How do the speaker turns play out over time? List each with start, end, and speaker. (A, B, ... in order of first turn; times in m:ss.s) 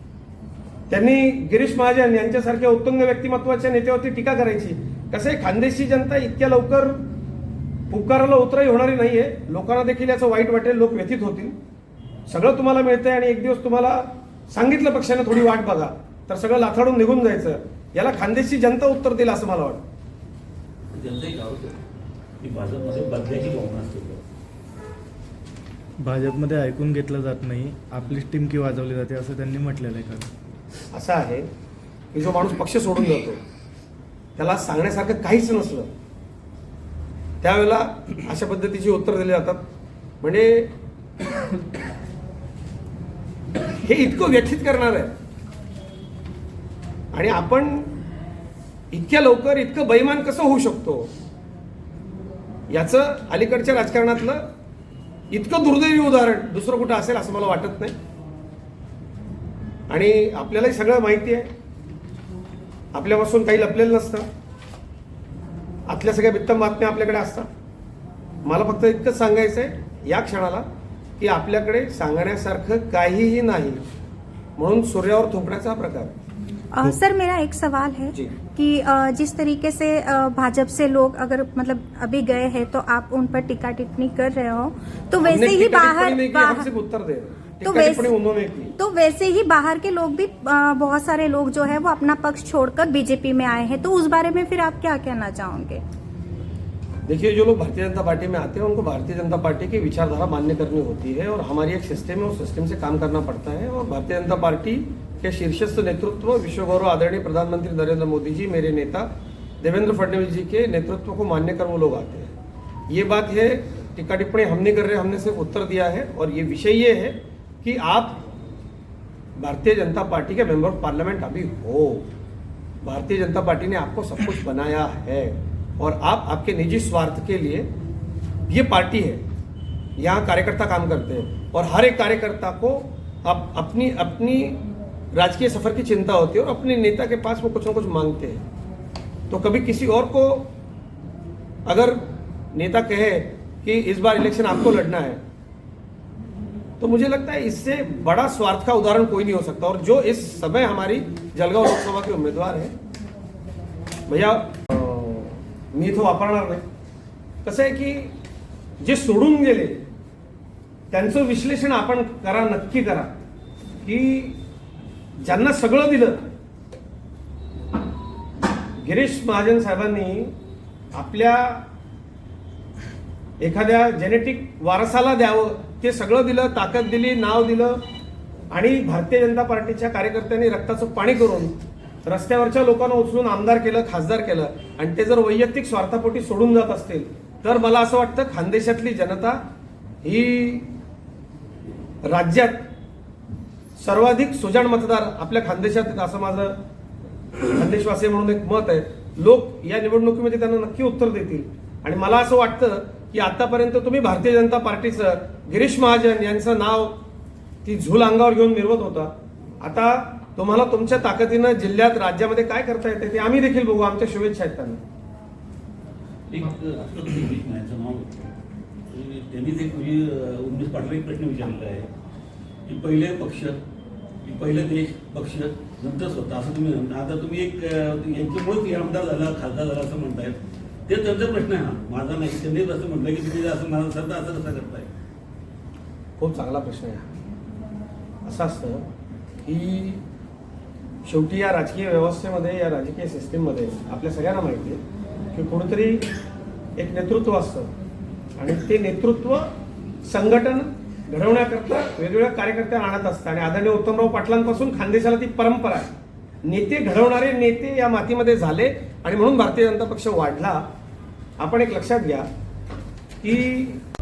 0:00.9-0:07.0 A
0:07.9-0:11.6 A
0:12.3-0:19.8 A
0:20.9-0:21.8 B
0:22.4-0:24.2 B
0:26.0-0:30.3 C
0:30.9-0:31.5 A
0:32.1-0:33.4 A
0:34.4-0:35.9 A
0:37.4-0:39.6 A
0:40.2-0:40.7 A
0:43.8-0:45.1 A
0:47.1-0:47.9 A
0:48.9-0:51.1 A
0:52.7-0:54.5 A
0:55.3-0:57.9 A
0:59.9-1:01.5 A
1:02.9-1:04.2 A
1:05.9-1:07.5 A
1:08.4-1:10.6 A
1:11.2-1:13.8 A
1:14.6-1:16.1 A
1:16.7-1:26.7 D
1:18.1-1:18.4 A
1:25.2-1:28.7 A
1:27.6-1:28.1 D
1:28.8-1:35.8 D
1:37.0-1:49.1 A
1:49.6-1:52.3 A
1:52.9-1:58.2 A
1:59.4-2:02.0 A
2:02.8-2:07.7 A
2:08.5-2:09.2 A
2:10.0-2:14.6 A
2:15.1-2:18.4 A
2:19.3-2:20.5 A
2:21.7-2:22.0 A
2:22.5-2:25.2 A
2:26.8-2:32.7 A
2:34.1-2:36.6 A
2:37.4-2:38.1 A
2:38.8-2:39.8 A
2:40.9-2:43.1 A
2:43.8-2:44.4 A
2:45.2-2:46.2 A
2:48.8-2:50.3 A
2:50.9-2:51.6 A
2:53.4-2:57.8 A
2:58.5-3:01.5 A
3:02.0-3:09.4 A
3:10.0-3:10.7 A
3:12.0-3:12.6 A
3:13.8-3:16.6 A
3:17.5-3:27.0 A
3:27.6-3:34.8 A
3:36.3-3:38.3 B
3:38.9-3:41.9 B
3:42.6-3:43.6 B
3:44.2-3:54.9 B
3:56.2-3:57.0 A
3:58.2-3:58.8 A
3:59.4-4:00.0 A
4:01.0-4:04.8 A
4:05.3-4:06.0 A
4:06.8-4:07.7 A
4:08.4-4:09.5 A
4:10.0-4:15.9 A
4:16.4-4:20.6 A
4:21.4-4:22.3 A
4:23.2-4:23.8 A